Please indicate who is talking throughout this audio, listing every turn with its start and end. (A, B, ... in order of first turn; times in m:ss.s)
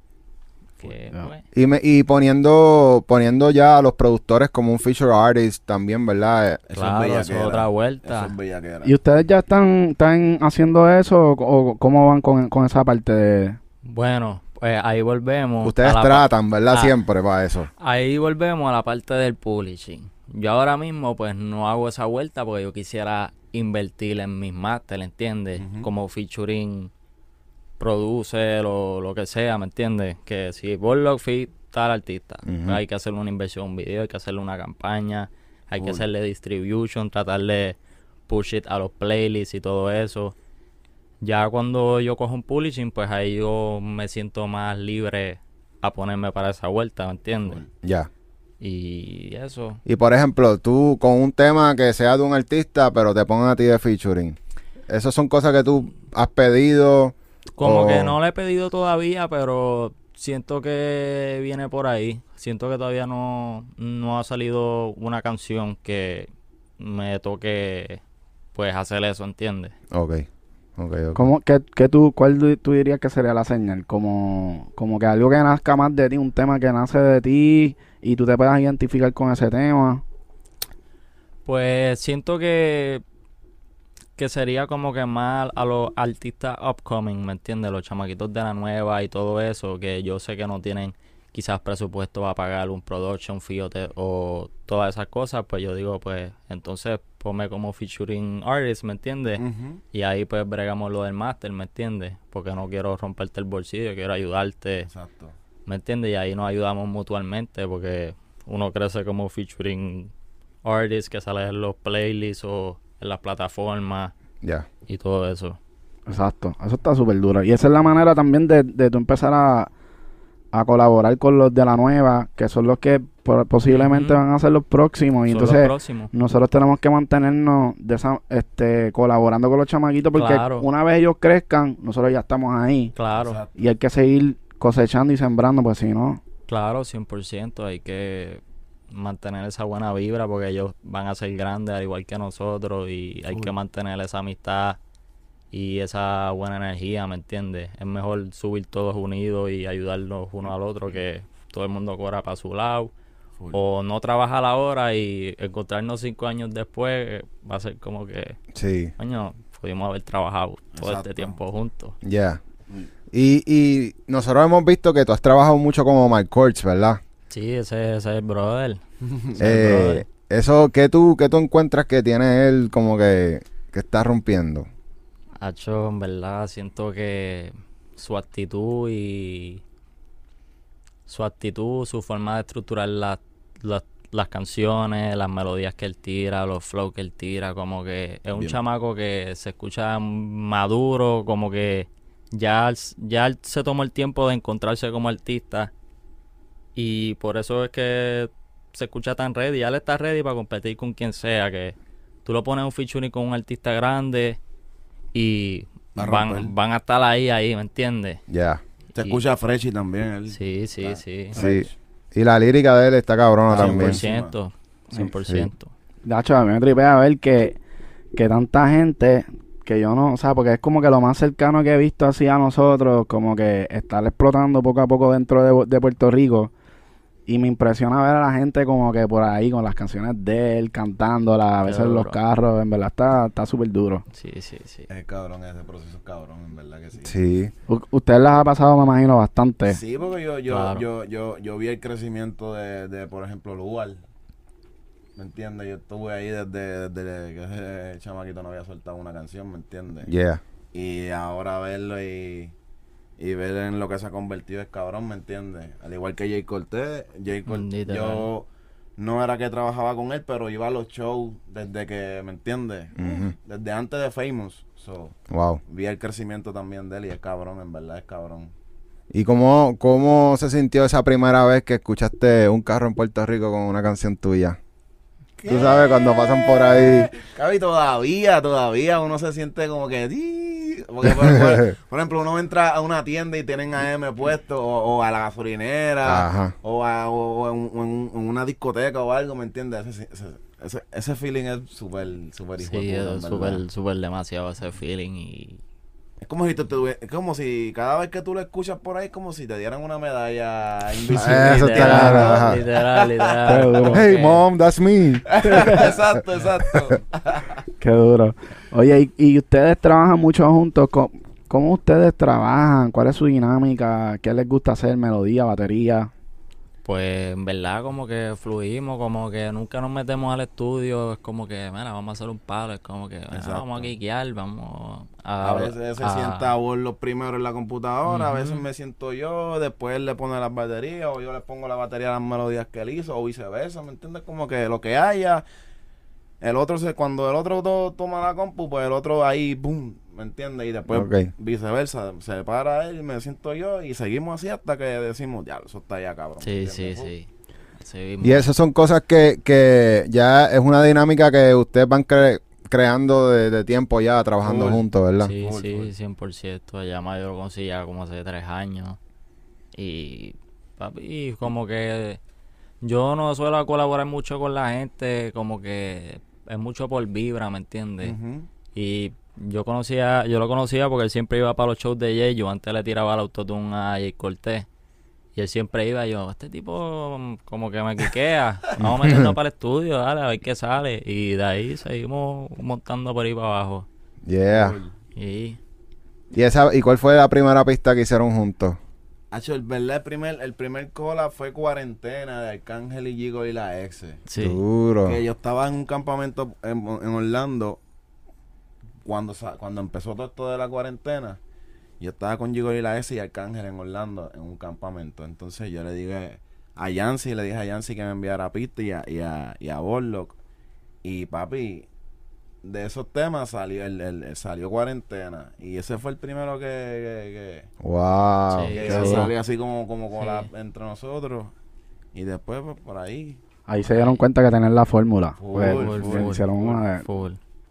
0:00.8-0:01.4 A
0:00.8-0:01.3 B
0:01.5-0:06.6 C
0:06.7-0:08.9 D
0:06.7-0:08.3 A
0:08.8-0:13.6 B
0:13.8-0:16.9 A
0:15.6-0:17.7 C
0:17.8-0:26.9 A
0:25.6-0:25.9 D
0:27.8-0:37.8 A
0:32.4-0:32.8 C
0:38.3-0:40.3 A
0:41.2-0:47.6 A
0:47.8-0:48.1 C
0:48.6-0:49.8 A
0:49.8-0:54.4 C
0:54.9-0:58.1 C
0:57.6-1:08.0 A
1:08.5-1:09.7 A
1:09.9-1:10.2 C
1:10.8-1:11.2 C
1:11.1-1:20.0 B
1:21.4-1:23.0 A
1:24.2-1:44.9 A
1:39.4-1:39.8 D
1:44.9-1:45.3 D
1:45.6-1:50.1 A
1:50.6-1:54.1 A
1:54.9-1:55.6 A
1:56.1-1:59.7 B
2:00.5-2:12.9 B
2:03.7-2:04.2 A
2:05.2-2:06.1 A
2:10.1-2:10.6 A
2:13.0-2:13.4 A
2:13.1-2:13.6 D
2:13.6-2:16.2 B
2:16.5-2:24.8 A
2:25.5-2:32.9 A
2:33.5-2:38.4 A
2:38.5-2:38.9 C
2:39.0-2:42.0 A
2:40.7-2:41.4 D
2:42.0-2:42.4 C
2:43.1-2:47.0 C
2:47.3-2:48.8 A
2:49.1-2:49.4 D
2:49.3-2:50.0 A
2:49.4-2:54.7 C
2:55.4-2:59.6 A
3:01.1-3:15.7 A
3:16.8-3:24.4 A
3:25.1-3:28.2 A
3:26.0-3:26.5 D
3:28.3-3:28.6 C
3:28.9-3:29.2 A
3:29.0-3:31.7 D
3:30.3-3:31.4 A
3:31.3-3:34.0 C
3:33.5-3:34.3 D
3:33.5-3:35.7 A
3:36.0-3:37.6 B
3:38.1-3:46.5 B
3:47.3-3:54.0 B
3:51.6-3:52.2 A
3:54.1-3:54.9 A
3:54.9-3:57.2 D
3:57.0-3:57.5 C
3:57.7-3:59.8 B
3:59.7-4:04.0 D
4:00.5-4:00.8 A
4:05.2-4:10.1 D
4:10.0-4:10.4 C
4:10.7-4:12.5 D
4:13.2-4:18.4 D
4:17.5-4:18.3 A
4:19.0-4:28.5 D
4:23.0-4:23.3 C
4:25.3-4:25.6 C
4:29.1-4:34.6 C
4:35.4-4:53.6 D
4:35.4-4:37.1 C
4:41.2-4:41.7 C
4:46.0-4:46.5 C
4:52.6-4:55.6 A
4:56.2-5:03.8 D
5:01.1-5:02.6 C
5:01.1-5:04.4 A
5:01.8-5:02.3 B
5:03.4-5:04.0 B
5:03.9-5:05.8 C
5:05.3-5:07.6 D
5:05.5-5:05.8 B
5:07.8-5:16.1 B
5:16.8-5:26.5 A
5:23.3-5:23.9 D
5:25.4-5:35.4 D
5:28.1-5:28.6 A
5:36.4-5:47.1 D
5:40.9-5:41.3 C
5:46.4-5:47.3 A
5:47.8-5:48.5 A
5:48.2-5:55.3 C
5:54.4-5:54.8 D
5:55.2-5:59.0 A
5:55.4-5:55.9 D
5:59.7-6:02.2 A
6:02.8-6:08.1 A
6:08.0-6:08.5 D
6:08.7-6:14.7 A
6:15.3-6:23.8 A
6:18.8-6:19.3 C
6:24.2-6:24.8 C
6:24.5-6:24.9 D
6:25.2-6:25.6 A
6:26.3-6:28.8 C
6:29.3-6:34.2 D
6:34.3-6:34.6 A
6:34.4-6:35.2 C
6:35.0-6:37.8 D
6:39.0-6:41.4 D
6:42.0-6:50.4 D
6:51.0-6:51.9 D
6:52.6-6:57.7 D
6:57.8-6:59.3 C
6:58.5-6:59.3 A
6:58.7-7:01.5 D
7:00.2-7:00.5 A
7:02.1-7:03.4 D
7:03.7-7:07.0 B
7:03.8-7:04.2 A
7:05.4-7:06.8 D
7:05.6-7:07.4 A